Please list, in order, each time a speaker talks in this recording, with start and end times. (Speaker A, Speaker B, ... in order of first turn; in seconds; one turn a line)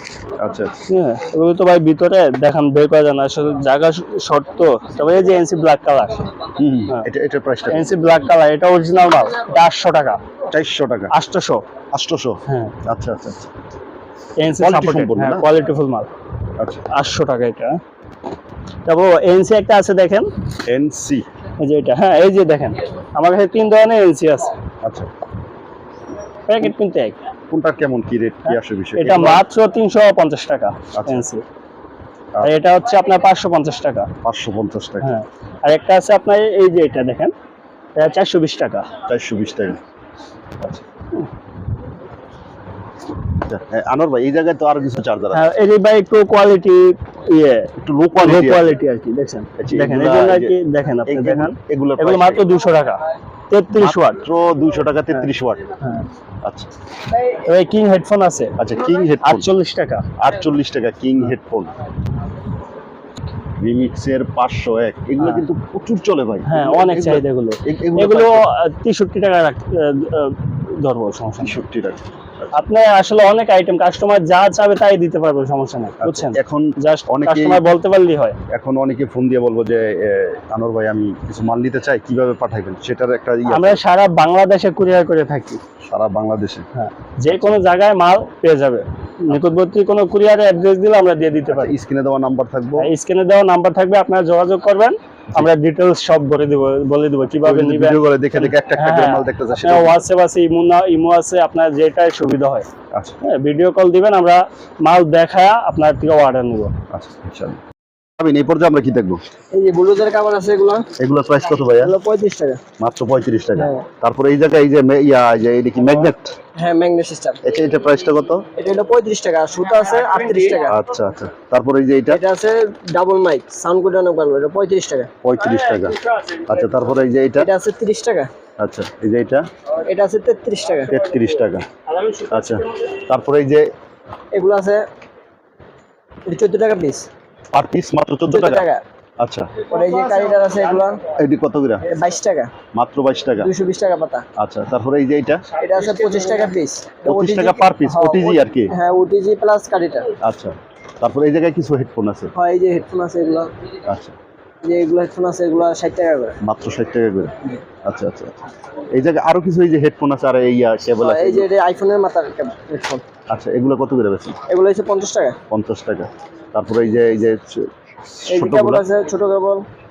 Speaker A: 0.3-0.7
Speaker B: 0.8-6.3
Speaker A: 6.5-7.9
Speaker B: 7.7-10.2
Speaker A: 10.5-11.1
Speaker B: 11.1-11.6
Speaker A: 11.9-13.5
Speaker B: 12.5-12.7
Speaker B: 14.4-16.1
Speaker A: 14.4-15.5
Speaker A: 16.6-16.9
Speaker B: 16.9-17.8
Speaker B: 18.8-20.3
Speaker A: 20.7-21.2
Speaker B: 21.6-24.5
Speaker A: 24.8-25.1
Speaker B: 26.5-27.2
Speaker A: 27.5-29.4
Speaker B: 28.4-31.4
Speaker A: 30.9-31.3
Speaker B: 32.4-34.1
Speaker A: 34.2-35.1
Speaker B: 35.0-37.3
Speaker B: 38.0-38.9
Speaker A: 39.1-39.8
Speaker A: 43.3-45.5
Speaker B: 45.3-54.2
Speaker A: 47.8-48.8
Speaker A: 49.6-52.5
Speaker A: 53.7-55.7
Speaker B: 55.8-56.1
Speaker A: 56.4-56.7
Speaker B: 57.1-58.5
Speaker A: 58.6-59.5
Speaker B: 59.2-60.1
Speaker A: 60.2-61.7
Speaker A: 63.6-68.4
Speaker B: 66.5-71.6
Speaker A: 71.4-72.5
Speaker B: 72.5-78.4
Speaker A: 76.0-77.7
Speaker A: 78.5-83.8
Speaker B: 83.5-85.6
Speaker A: 85.8-86.7
Speaker B: 86.7-91.7
Speaker A: 87.3-87.6
Speaker A: 91.5-92.9
Speaker B: 92.8-102.7
Speaker A: 97.3-100.0
Speaker B: 103.2-106.7
Speaker A: 106.9-107.6
Speaker A: 108.2-109.2
Speaker C: 109.5-110.9
Speaker A: 111.0-111.9
Speaker C: 111.8-112.6
Speaker A: 112.8-116.3
Speaker C: 113.6-113.8
Speaker C: 116.5-117.4
Speaker A: 117.4-118.5
Speaker C: 118.5-120.8
Speaker B: 119.8-120.6
Speaker A: 120.7-122.2
Speaker C: 122.1-125.1
Speaker A: 125.2-127.5
Speaker B: 125.4-126.7
Speaker C: 127.4-128.3
Speaker A: 128.6-129.4
Speaker C: 129.8-130.9
Speaker A: 130.9-131.6
Speaker B: 131.9-132.7
Speaker A: 132.3-133.7
Speaker C: 134.3-134.8
Speaker C: 136.2-137.1
Speaker A: 137.5-138.6
Speaker C: 138.3-138.8
Speaker A: 139.2-139.6
Speaker C: 139.6-141.1
Speaker A: 141.1-141.9
Speaker C: 141.8-142.5
Speaker A: 142.7-143.5
Speaker C: 143.4-144.2
Speaker A: 144.4-145.4
Speaker C: 145.6-150.1
Speaker A: 147.0-148.7
Speaker A: 150.2-152.3
Speaker C: 152.3-153.5
Speaker A: 153.8-154.1
Speaker C: 154.6-156.4
Speaker A: 156.4-161.5
Speaker C: 161.0-163.0
Speaker A: 163.3-164.4
Speaker C: 164.5-165.4
Speaker A: 165.5-168.8
Speaker C: 168.3-169.6